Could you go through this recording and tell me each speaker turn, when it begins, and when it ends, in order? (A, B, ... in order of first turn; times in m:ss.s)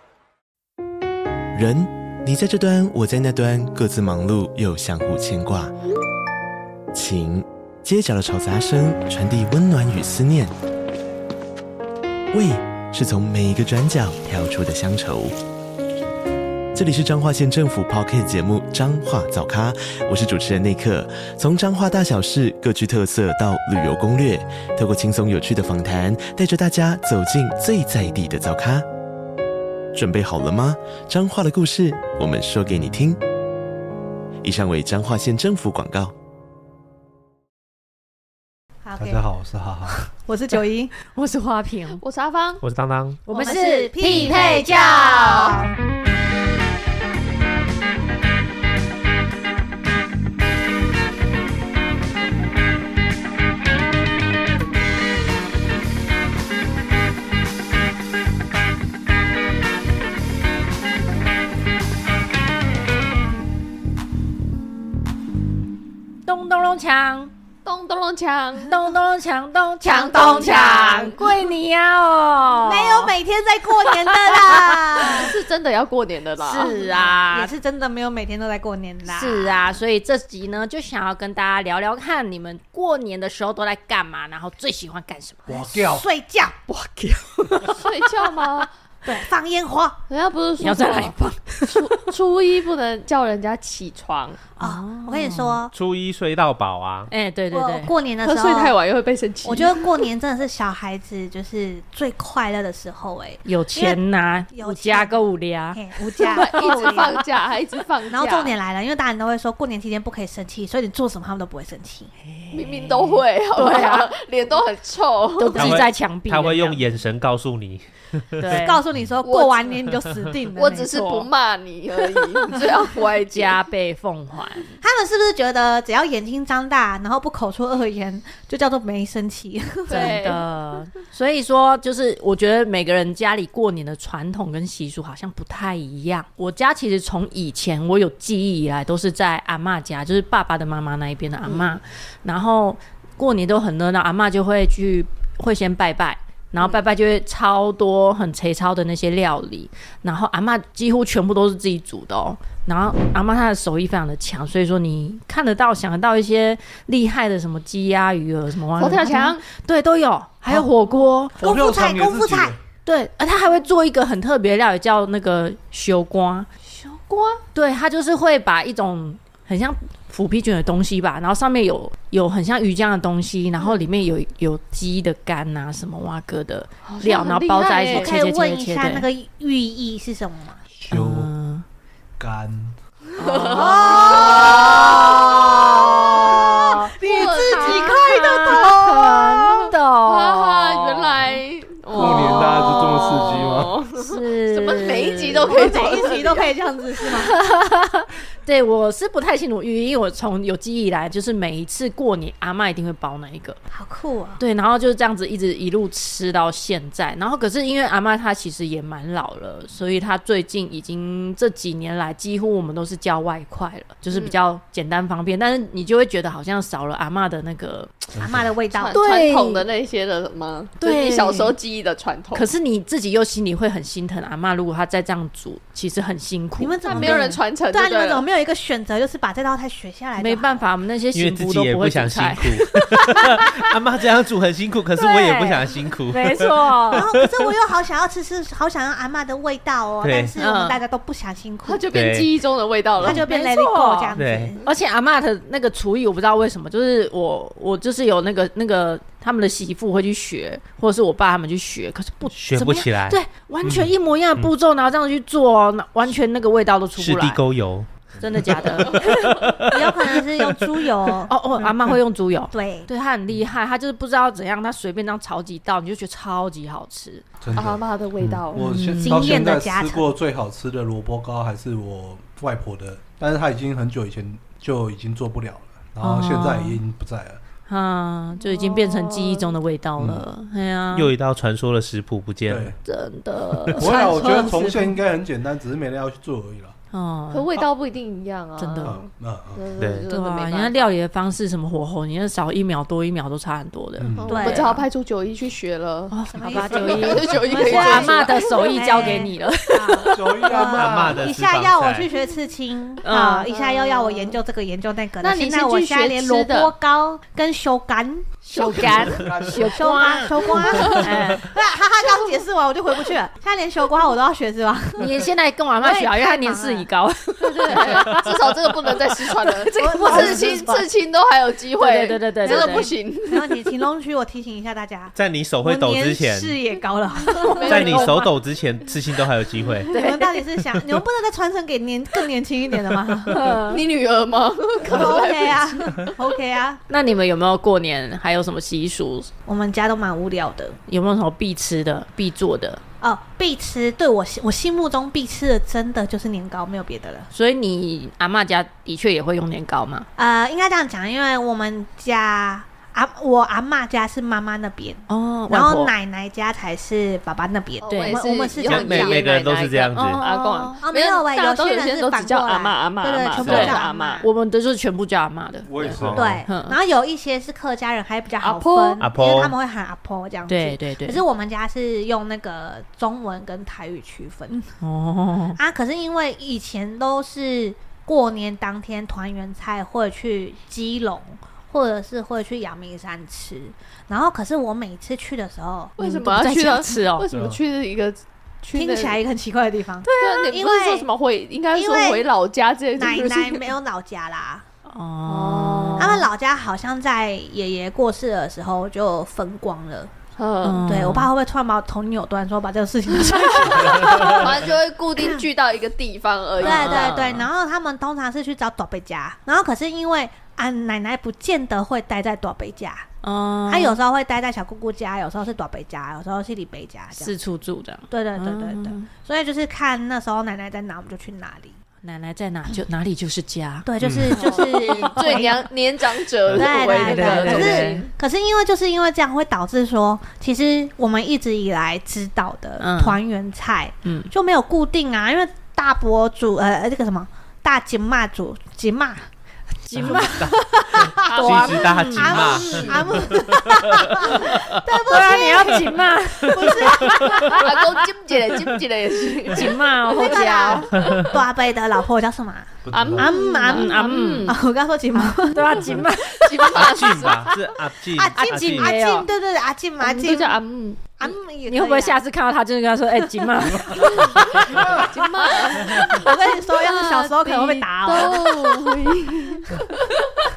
0:01.5-0:05.7 A
0:06.9-0:10.5 A
0:12.3-0:15.4 A
0:16.7-0:28.9 A
0:29.9-0:33.2 A
0:34.4-0:36.1 A
0:38.8-0:39.2 B
0:39.0-0:40.0 C
0:39.9-0:40.9 B
0:41.0-0:42.0 D
0:42.0-0:42.6 E
0:42.6-0:43.3 F
0:43.3-0:45.6 D
0:43.3-0:45.7 B
1:06.2-1:07.3 D
1:07.6-1:08.8 E
1:08.7-1:13.1 D
1:09.8-1:11.1 B
1:10.0-1:11.2 E
1:12.6-1:15.3 B
1:14.1-1:15.1 D
1:15.0-1:16.7 E
1:16.4-1:17.5 D
1:16.6-1:19.8 B
1:19.1-1:25.5 D
1:25.5-1:26.0 C
1:25.5-1:26.6 B
1:26.7-1:28.6 D
1:27.7-1:28.7 E
1:29.0-1:30.0 B
1:30.1-1:31.1 E
1:30.6-1:32.1 D
1:31.7-1:34.4 E
1:34.6-1:35.6 D
1:34.6-1:35.7 B
1:35.7-1:37.1 F
1:37.1-1:37.9 D
1:37.5-1:38.7 B
1:38.2-1:40.0 E
1:39.4-1:47.2 B
1:43.4-1:47.2 D
1:46.3-1:48.6 E
1:48.1-1:52.1 B
1:52.2-1:54.1 D
1:52.5-1:55.7 E
1:55.4-1:56.8 D
1:55.5-1:55.8 B
1:55.5-1:58.6 F
1:58.4-1:58.8 D
1:58.4-2:01.0 B
1:59.2-1:59.7 E
2:00.5-2:03.6 E
2:00.7-2:01.3 D
2:02.4-2:04.7 D
2:04.8-2:10.3 B
2:09.9-2:10.4 E
2:09.9-2:41.4 D
2:38.8-2:39.4 E
2:41.3-2:42.6 C
2:41.4-2:42.5 B
2:42.8-2:46.5 D
2:46.6-2:47.4 E
2:47.5-2:59.0 D
2:56.8-2:58.1 E
2:57.9-3:00.6 B
3:00.7-3:01.3 C
3:00.9-3:01.6 D
3:02.2-3:02.8 C
3:03.2-3:11.4 D
3:03.2-3:05.0 E
3:03.4-3:09.2 B
3:07.0-3:08.0 E
3:10.0-3:16.5 E
3:11.9-3:13.8 C
3:11.9-3:12.3 D
3:13.9-3:16.0 D
3:15.5-3:17.4 B
3:17.1-3:23.6 D
3:23.7-3:24.4 B
3:24.4-3:38.1 D
3:34.1-3:34.4 E
3:38.2-3:38.4 C
3:38.2-3:39.0 B
3:38.7-3:42.5 E
3:38.9-3:39.6 D
3:40.8-3:41.5 D
3:42.3-3:47.4 D
3:46.6-3:50.6 B
3:46.9-3:48.2 E
3:50.2-3:53.6 D
3:51.1-3:57.5 F
3:55.0-3:57.0 D
3:56.9-4:01.9 B
4:00.0-4:00.3 F
4:00.4-4:00.8 D
4:01.6-4:03.2 E
4:01.9-4:02.3 F
4:03.0-4:04.6 B
4:03.0-4:17.4 D
4:04.2-4:04.5 F
4:12.3-4:14.5 F
4:17.0-4:17.9 F
4:18.2-4:19.2 D
4:18.4-4:20.7 F
4:19.2-4:21.3 B
4:21.3-4:27.2 D
4:22.5-4:22.9 B
4:27.4-4:27.8 C
4:27.5-4:28.7 E
4:28.5-4:37.4 C
4:28.6-4:29.3 D
4:29.0-4:30.1 B
4:36.0-4:36.8 D
4:37.7-4:41.1 D
4:38.4-4:39.5 E
4:40.0-4:40.2 C
4:40.9-4:42.7 F
4:42.5-4:42.8 C
4:42.8-4:45.0 D
4:43.8-4:46.7 C
4:46.9-4:47.5 D
4:47.3-4:50.9 E
4:48.6-4:49.0 D
4:48.8-4:49.6 C
4:49.8-4:50.1 F
4:50.1-4:54.8 D
4:54.0-4:54.4 C
4:54.2-4:59.3 E
4:54.3-4:54.8 B
4:56.1-5:00.8 D
4:56.3-5:08.4 B
5:00.0-5:01.5 C
5:00.6-5:02.1 F
5:03.0-5:03.5 D
5:03.5-5:04.4 E
5:05.2-5:06.7 E
5:08.5-5:11.5 D
5:08.5-5:10.0 C
5:09.6-5:15.3 B
5:10.6-5:11.0 E
5:15.0-5:18.3 D
5:15.8-5:16.9 B
5:17.4-5:23.6 E
5:19.4-5:20.8 D
5:19.8-5:20.6 B
5:21.8-5:22.9 D
5:22.4-5:27.9 B
5:25.2-5:26.6 F
5:27.4-5:28.3 D
5:27.6-5:28.2 E
5:27.6-5:29.9 F
5:29.9-5:33.7 B
5:29.9-5:30.4 D
5:33.3-5:33.8 D
5:33.4-5:35.8 E
5:34.9-5:36.8 B
5:36.9-5:39.3 D
5:39.4-5:40.8 B
5:40.9-5:42.8 D
5:43.0-5:47.3 B
5:47.3-5:50.1 D
5:50.2-5:59.2 B
5:55.1-5:55.9 D
5:57.8-6:04.2 E
5:57.9-5:58.2 D
5:58.6-6:00.2 F
5:59.9-6:00.8 D
6:00.8-6:04.2 B
6:03.4-6:03.8 F
6:03.4-6:06.8 D
6:05.6-6:06.4 C
6:05.9-6:06.3 F
6:06.1-6:14.7 B
6:08.4-6:09.0 E
6:09.0-6:09.5 F
6:10.5-6:11.2 D
6:14.8-6:15.6 D
6:15.6-6:26.0 B
6:26.0-6:29.2 E
6:26.0-6:27.3 D
6:27.3-6:27.6 C
6:28.7-6:31.1 B
6:30.2-6:33.6 E
6:31.7-6:32.3 B
6:33.0-6:34.6 B
6:34.9-6:36.3 D
6:35.3-6:36.1 E
6:36.0-6:40.1 B
6:40.4-6:40.8 E
6:40.6-6:41.3 D
6:40.8-6:44.7 B
6:43.2-6:47.1 E
6:46.6-6:53.1 B
6:46.6-6:47.5 D
6:53.2-6:54.0 D
6:53.7-6:57.3 B
6:57.1-6:59.1 D
6:58.1-7:01.8 B
7:02.0-7:05.6 D
7:03.8-7:05.6 B
7:04.0-7:04.3 C
7:04.3-7:08.1 E
7:06.5-7:19.3 B
7:06.6-7:08.1 D
7:12.8-7:13.2 D
7:14.0-7:14.3 D
7:19.8-7:22.9 D
7:20.0-7:24.8 F
7:20.0-7:21.3 B
7:21.2-7:23.0 E
7:22.2-7:27.6 B
7:25.1-7:27.7 D
7:26.6-7:27.6 F
7:27.5-7:29.7 E
7:29.5-7:30.9 D
7:30.1-7:36.0 B
7:30.3-7:31.2 E
7:31.0-7:31.3 F
7:32.8-7:33.3 C
7:32.9-7:34.5 E
7:33.7-7:34.6 D
7:35.4-7:36.8 D
7:36.3-7:37.6 E
7:36.7-7:38.9 F
7:38.1-7:40.6 B
7:38.4-7:39.3 D
7:40.0-7:41.0 E
7:41.2-7:42.2 B
7:41.6-7:44.0 D
7:43.1-7:49.7 B
7:43.9-7:47.5 E
7:47.4-7:48.2 D
7:48.0-7:50.0 E